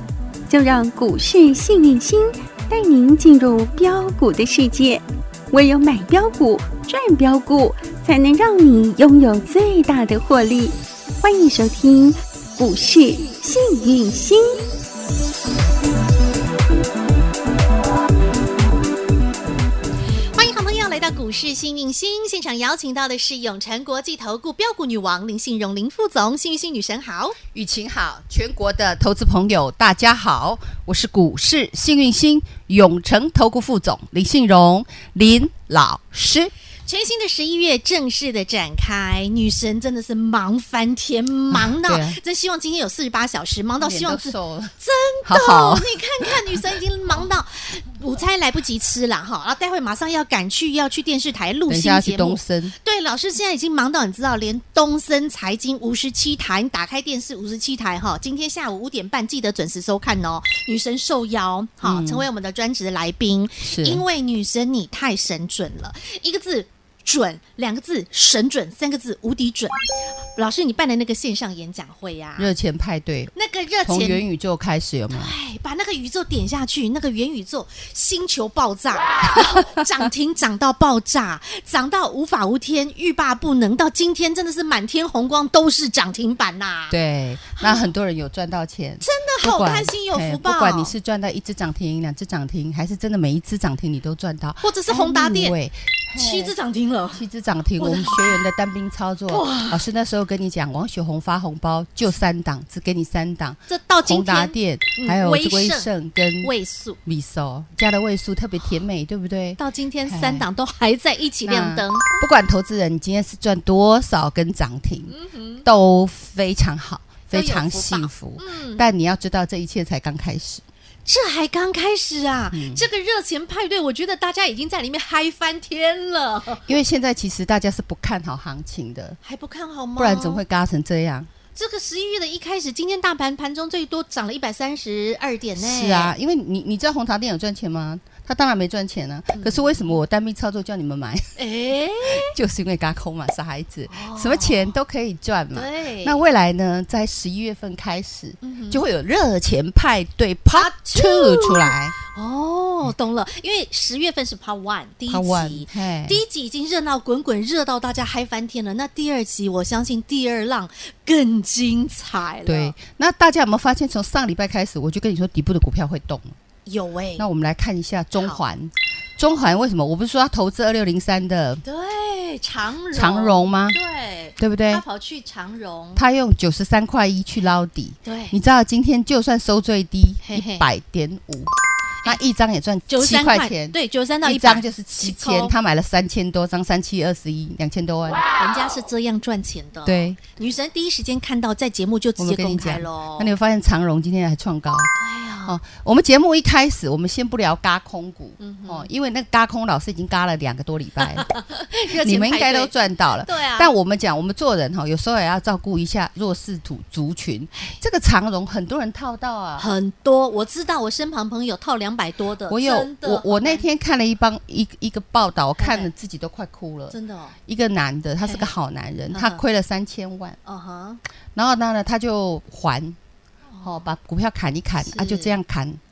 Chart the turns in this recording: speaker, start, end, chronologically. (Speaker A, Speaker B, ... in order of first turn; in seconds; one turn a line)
Speaker A: 0.5-14.6
Speaker B: 20.4-27.4
Speaker C: 27.5-36.5
Speaker B: 36.9-69.8
Speaker C: 41.5-42.2
Speaker C: 43.8-46.3
Speaker C: 51.7-52.7
Speaker C: 61.8-62.3
Speaker C: 63.6-64.0
Speaker B: 70.3-72.5
Speaker C: 72.4-73.3
Speaker B: 73.3-74.2
Speaker C: 73.9-75.3
Speaker B: 75.1-87.0
Speaker C: 86.9-96.5
Speaker B: 87.6-87.9
Speaker B: 89.0-90.9
Speaker B: 94.6-95.5
Speaker B: 96.2-97.2
Speaker C: 97.2-106.5
Speaker B: 97.8-98.3
Speaker B: 99.3-99.8
Speaker B: 103.7-105.9
Speaker B: 106.4-107.0
Speaker C: 107.0-110.5
Speaker B: 109.6-112.2
Speaker C: 111.4-115.1
Speaker B: 115.1-115.7
Speaker C: 115.6-120.6
Speaker B: 117.3-118.9
Speaker B: 121.0-126.7
Speaker C: 122.5-122.8
Speaker C: 126.7-129.2
Speaker B: 129.2-130.4
Speaker C: 130.0-131.3
Speaker B: 131.6-136.1
Speaker C: 135.6-141.4
Speaker B: 139.3-139.9
Speaker B: 141.4-142.3
Speaker C: 142.0-152.0
Speaker B: 143.9-144.8
Speaker B: 145.5-146.2
Speaker B: 148.4-148.8
Speaker B: 150.5-162.8
Speaker C: 155.1-156.2
Speaker C: 162.5-166.3
Speaker B: 166.7-167.3
Speaker C: 167.2-171.6
Speaker B: 168.2-168.4
Speaker B: 171.6-176.0
Speaker C: 172.9-173.8
Speaker C: 174.4-174.8
Speaker C: 175.9-181.5
Speaker B: 178.1-178.4
Speaker B: 180.2-180.7
Speaker C: 182.0-188.2
Speaker B: 182.9-185.5
Speaker B: 188.4-193.3
Speaker C: 189.8-190.2
Speaker C: 192.2-194.9
Speaker B: 195.0-195.6
Speaker C: 195.4-201.3
Speaker B: 198.4-198.9
Speaker B: 201.0-202.7
Speaker C: 201.9-209.7
Speaker B: 203.2-203.7
Speaker B: 209.6-213.7
Speaker C: 212.5-216.9
Speaker B: 215.6-215.9
Speaker B: 216.9-217.4
Speaker C: 217.5-220.4
Speaker B: 218.2-218.5
Speaker B: 219.1-219.4
Speaker B: 220.4-221.0
Speaker C: 221.3-223.0
Speaker B: 223.5-223.8
Speaker C: 223.6-225.8
Speaker B: 224.8-225.3